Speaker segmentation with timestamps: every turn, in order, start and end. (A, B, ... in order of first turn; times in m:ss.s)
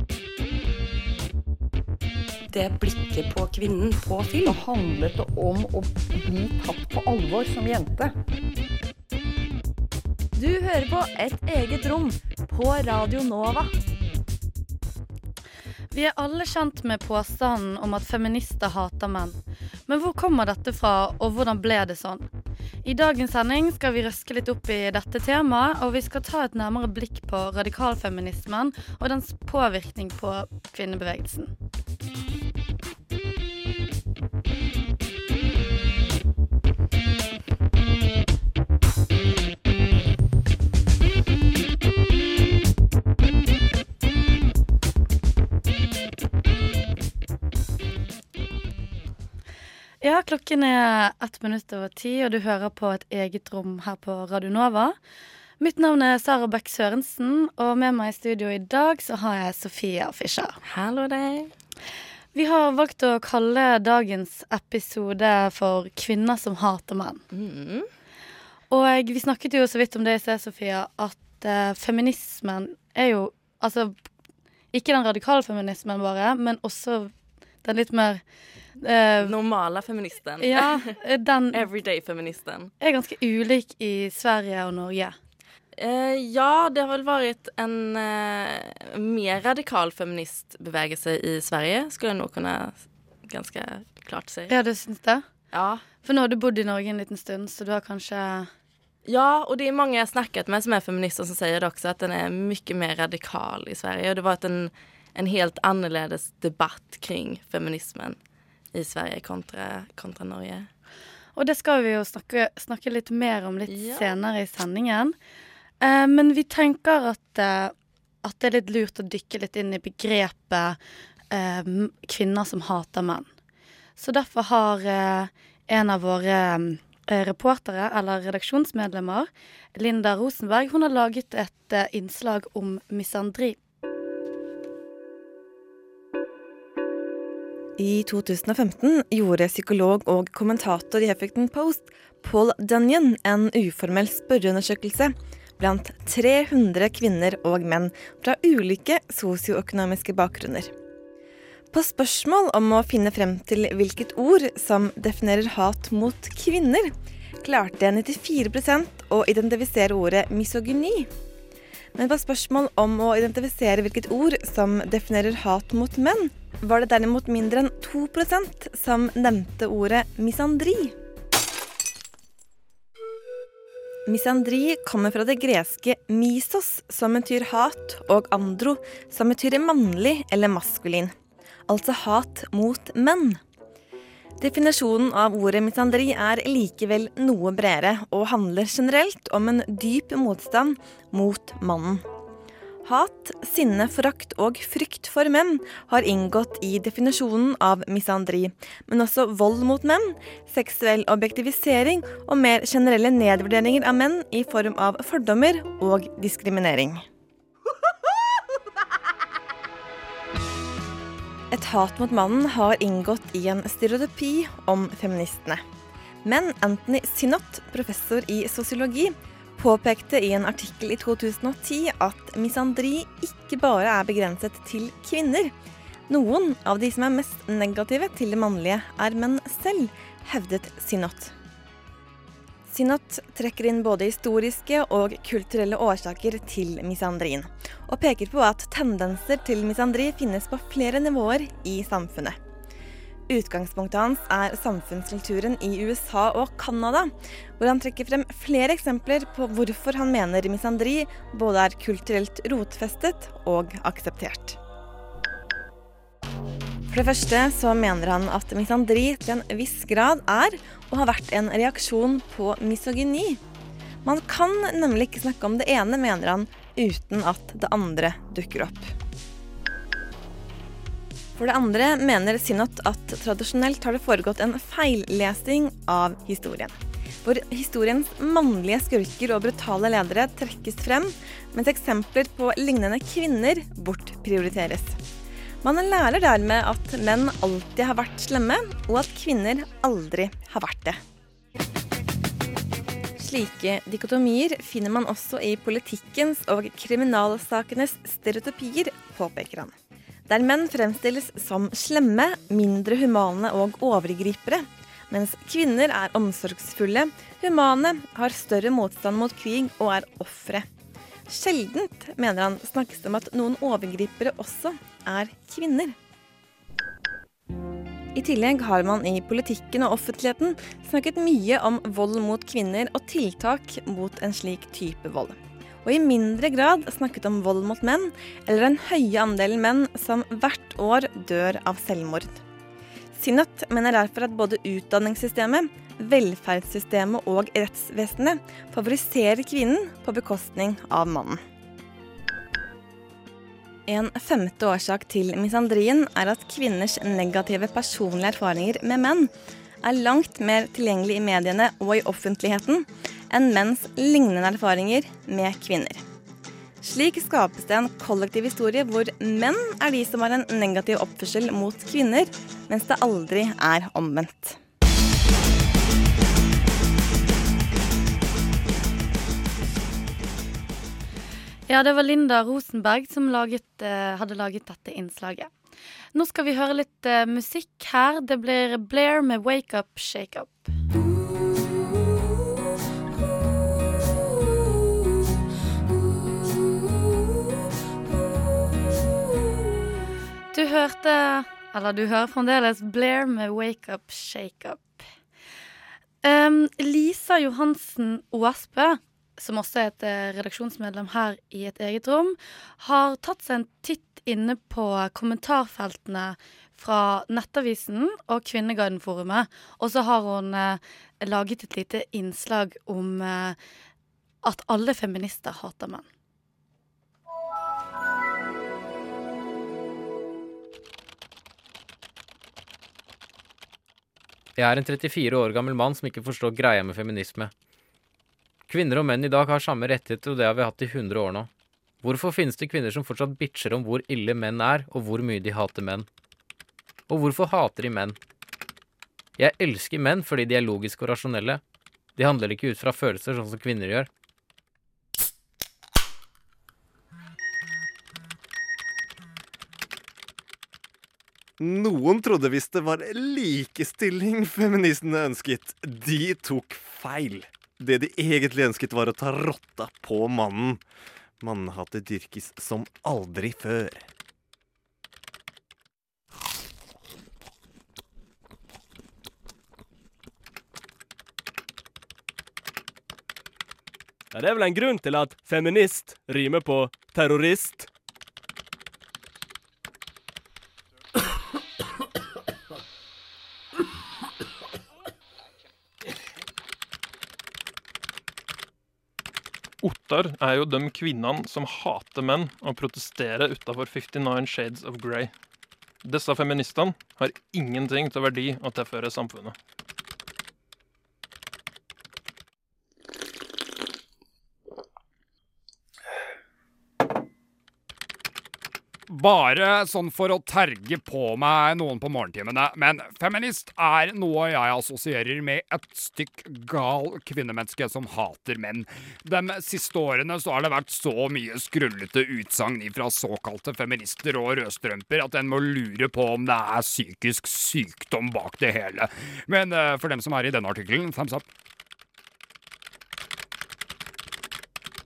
0:02.5-0:04.6 A
0:04.4-0:08.1 B
0:10.4-0:13.7 C
0:15.9-0:19.4 D
0:19.9-0:22.2 D
0:22.8-0:31.5 D
0:50.0-0:55.0 D
0:55.6-1:00.6 D
1:00.6-1:01.5 E
1:02.3-1:07.2 D
1:07.3-1:07.9 E
1:08.7-1:13.9 D
1:14.7-1:17.1 D
1:17.6-1:18.2 D
1:18.8-1:19.3 D
1:19.2-1:20.8 E
1:20.4-1:21.6 D
1:21.5-1:22.7 E
1:22.8-1:25.1 D
1:25.8-1:34.5 E
1:34.5-1:35.2 D
1:35.5-1:35.8 E
1:36.0-1:38.5 D
1:39.0-1:48.2 E
1:48.7-1:50.7 E
1:51.3-1:55.1 D
1:53.7-1:54.1 E
1:55.8-2:00.8 D
2:01.3-2:03.3 D
2:04.0-2:13.6 D
2:17.8-2:30.7 F
2:31.7-2:41.1 F
2:42.0-2:50.9 F
2:54.1-3:01.1 F
3:01.7-3:03.4 F
3:04.4-3:12.0 F
3:12.8-3:27.0 F
3:31.5-3:35.6 F
3:36.2-3:45.5 F
3:46.1-3:51.3 F
3:52.7-4:02.4 F
4:03.3-4:14.6 F
4:16.9-4:23.4 F
4:24.0-4:28.9 F
4:31.4-4:45.0 F
4:45.6-4:51.0 F
4:53.2-4:59.7 F
5:00.3-5:10.7 F
5:11.3-5:15.9 F
5:18.1-5:32.4 F
5:33.1-5:41.4 F
5:43.9-5:49.3 F
5:49.8-5:56.0 F
5:56.8-6:04.6 F
6:11.7-6:15.5 D
6:16.1-6:20.8 D
6:30.5-6:35.0 D
6:36.2-6:53.6 D
6:54.4-6:56.0 D
7:04.6-7:07.5 G
7:08.7-7:11.5 G
7:12.0-7:16.1 G
7:17.1-7:18.2 G
7:19.4-7:21.6 G
7:22.2-7:24.1 G
7:31.6-7:40.8 H
7:41.4-7:44.1 H
7:54.3-7:57.9 I
8:09.8-8:15.3 J
8:16.0-8:19.5 J
8:29.1-8:51.4 K